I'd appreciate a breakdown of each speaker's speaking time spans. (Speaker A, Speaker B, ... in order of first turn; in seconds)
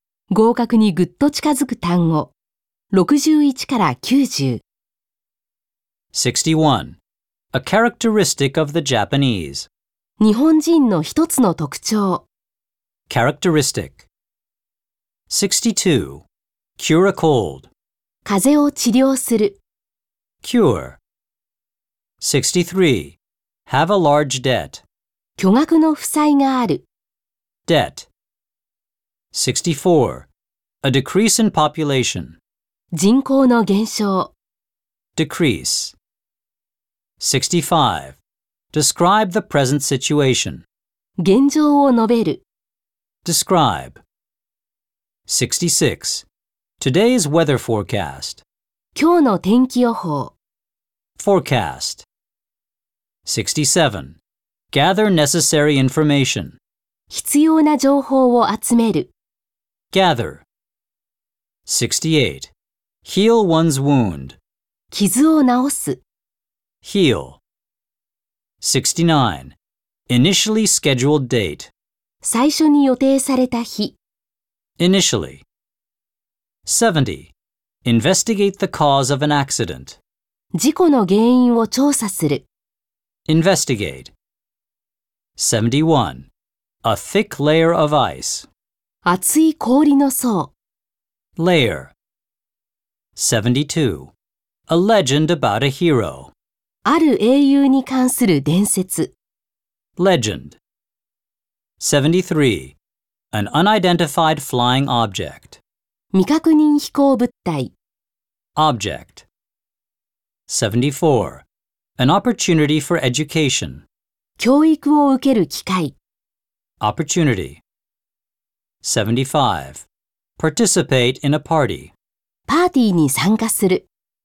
Speaker A: 0.3-2.3, 2.9-4.6, 10.2-12.3, 18.2-19.6, 25.4-26.8, 33.0-34.3, 41.2-42.4, 49.0-50.4, 57.1-59.1, 64.9-66.0, 72.2-74.0, 80.5-82.5, 89.0-90.5, 96.8-99.1, 106.1-107.7, 114.4-116.0, 122.5-123.9
Speaker B: 6.1-7.0, 7.5-9.7, 13.1-14.1, 15.3-16.2, 16.8-17.7, 20.4-21.0, 22.2-24.8, 27.7-28.1, 29.3-30.3, 30.8-32.4, 35.2-36.0, 37.2-38.2, 38.7-40.6, 43.2-44.0, 45.3-46.3, 46.8-48.4, 51.2-52.0, 53.3-54.2, 54.7-56.6, 59.9-60.5, 61.7-62.5, 63.0-64.4, 66.8-67.4, 68.6-69.6, 70.1-71.7, 74.8-75.5, 76.7-77.3, 77.8-80.0, 83.3-84.1, 85.4-86.3, 86.8-88.5, 91.4-91.9, 93.2-94.1, 94.7-96.3, 100.0-100.6, 101.8-102.8, 103.3-105.6, 108.6-109.3, 110.5-111.5, 112.0-113.8, 116.8-117.6, 118.8-119.9, 120.4-121.9